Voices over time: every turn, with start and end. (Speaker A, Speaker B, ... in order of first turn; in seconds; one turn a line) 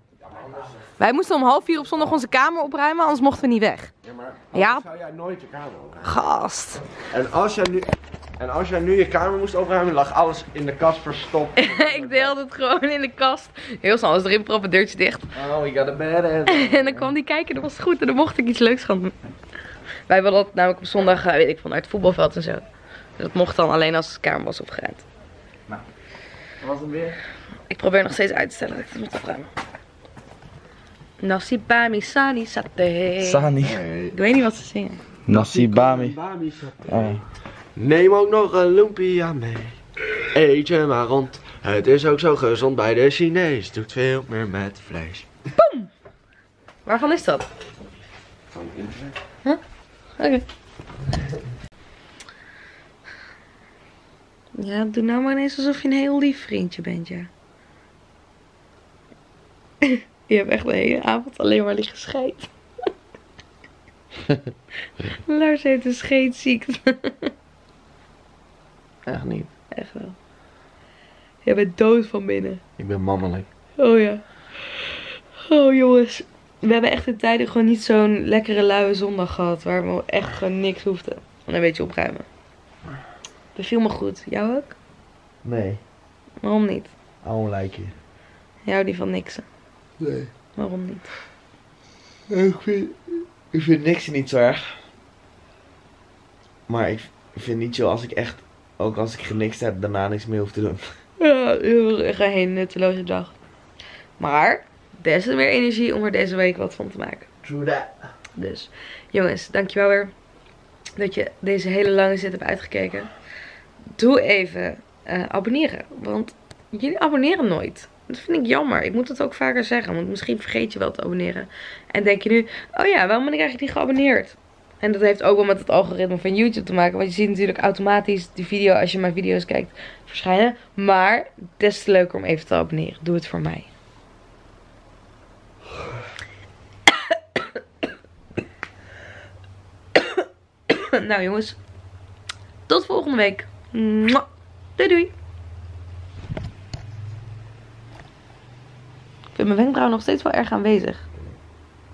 Speaker A: 0.2-0.8
Speaker B: 1.0-3.9
Speaker A: 4.0-6.2
Speaker B: 4.5-4.8
Speaker B: 6.0-6.8
Speaker A: 7.1-12.3
Speaker B: 11.6-15.3
Speaker C: 15.3-17.1
Speaker B: 16.4-19.1
Speaker B: 20.1-22.6
Speaker B: 23.1-25.1
Speaker C: 26.6-27.2
Speaker B: 27.7-29.5
Speaker B: 31.2-33.5
Speaker C: 33.2-33.9
Speaker A: 33.6-34.1
Speaker B: 34.1-35.0
Speaker C: 35.3-36.2
Speaker A: 35.3-37.2
Speaker C: 36.8-37.2
Speaker A: 37.7-45.3
Speaker B: 45.6-45.9
Speaker B: 46.8-47.5
Speaker A: 48.5-49.2
Speaker B: 50.2-50.4
Speaker B: 54.5-57.3
Speaker B: 59.8-62.5
Speaker B: 65.3-67.3
Speaker C: 69.0-69.5
Speaker B: 69.7-70.2
Speaker B: 71.4-72.6
Speaker A: 72.8-73.5
Speaker B: 73.8-74.8
Speaker B: 75.5-82.3
Speaker B: 83.5-84.7
Speaker C: 85.4-85.8
Speaker B: 86.4-87.0
Speaker C: 87.2-87.9
Speaker B: 88.6-89.5
Speaker A: 90.0-90.3
Speaker B: 90.5-91.1
Speaker C: 92.3-94.9
Speaker C: 96.7-101.0
Speaker B: 101.2-103.3
Speaker B: 104.2-107.2
Speaker C: 107.4-108.0
Speaker B: 108.3-110.1
Speaker B: 111.0-113.1
Speaker B: 114.0-133.7
Speaker B: 140.7-141.6
Speaker B: 142.7-145.1
Speaker B: 149.3-151.1